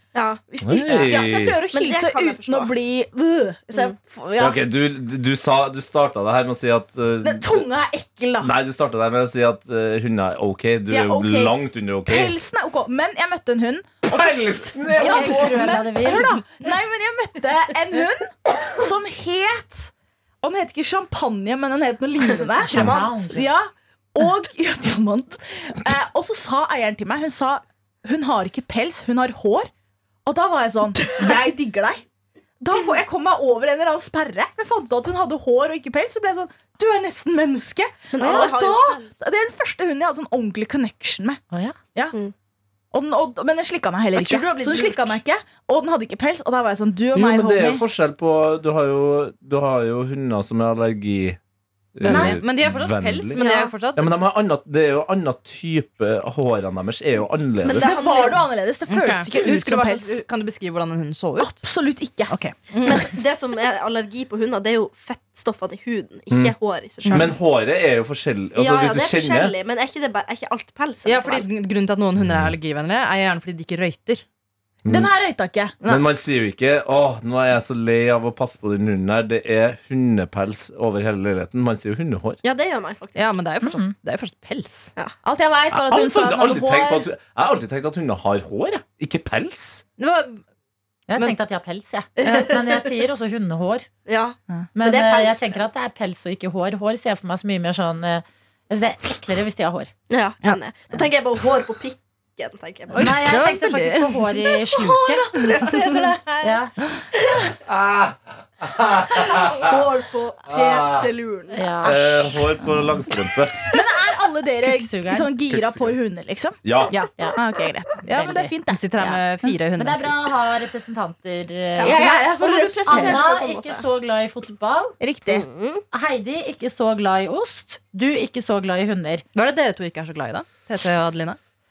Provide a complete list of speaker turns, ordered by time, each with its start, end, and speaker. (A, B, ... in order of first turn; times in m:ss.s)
0:00.2-0:02.7 A
0:00.5-0:04.6 B
0:00.6-0:01.6 C
0:04.4-0:07.5 C
0:07.2-0:08.5 B
0:08.4-0:12.4 C
0:10.9-0:29.7 B
0:14.1-0:15.7 C
0:14.9-0:16.4 D
0:22.6-0:23.5 D
0:22.7-0:23.3 A
0:30.2-0:32.0 B
0:32.6-0:41.4 B
0:38.2-0:39.3 A
0:41.5-0:41.8 D
0:42.9-0:47.8 B
0:44.2-0:45.2 A
0:47.1-0:51.4 C
0:52.0-0:53.4 C
0:52.0-0:54.1 E
0:52.0-0:52.4 D
0:53.4-0:53.8 A
0:54.0-0:58.1 C
0:57.6-0:58.4 A
0:57.8-1:00.2 B
0:58.9-1:01.6 E
1:01.4-1:02.4 B
1:02.3-1:03.2 E
1:02.8-1:07.4 A
1:06.3-1:06.6 C
1:07.1-1:09.5 C
1:08.6-1:11.5 A
1:11.0-1:14.2 E
1:12.2-1:12.5 C
1:14.8-1:15.1 C
1:14.9-1:15.8 B
1:15.8-1:22.4 C
1:22.4-1:23.4 A
1:23.2-1:24.9 E
1:23.6-1:23.9 D
1:25.2-1:27.1 B
1:25.7-1:29.8 C
1:30.0-1:30.4 E
1:31.1-1:33.9 D
1:32.2-1:32.6 A
1:32.2-1:32.5 E
1:34.1-1:35.7 A
1:34.8-1:39.9 D
1:40.1-1:43.3 A
1:42.9-1:44.4 E
1:42.9-1:45.4 D
1:44.6-1:47.0 B
1:46.4-1:46.7 D
1:47.6-1:49.8 C
1:49.3-1:51.7 A
1:50.5-1:51.1 C
1:51.5-1:52.4 D
1:51.8-1:53.7 C
1:53.7-1:56.6 B
1:54.7-1:55.3 D
1:55.5-1:55.9 C
1:56.6-1:57.0 C
1:57.4-1:59.2 B
1:58.1-1:58.4 D
1:58.1-2:00.2 E
1:59.8-2:02.3 D
2:01.8-2:03.8 A
2:01.8-2:03.3 B
2:02.9-2:05.0 D
2:05.0-2:05.5 B
2:05.3-2:05.8 A
2:05.9-2:09.2 D
2:09.4-2:11.4 E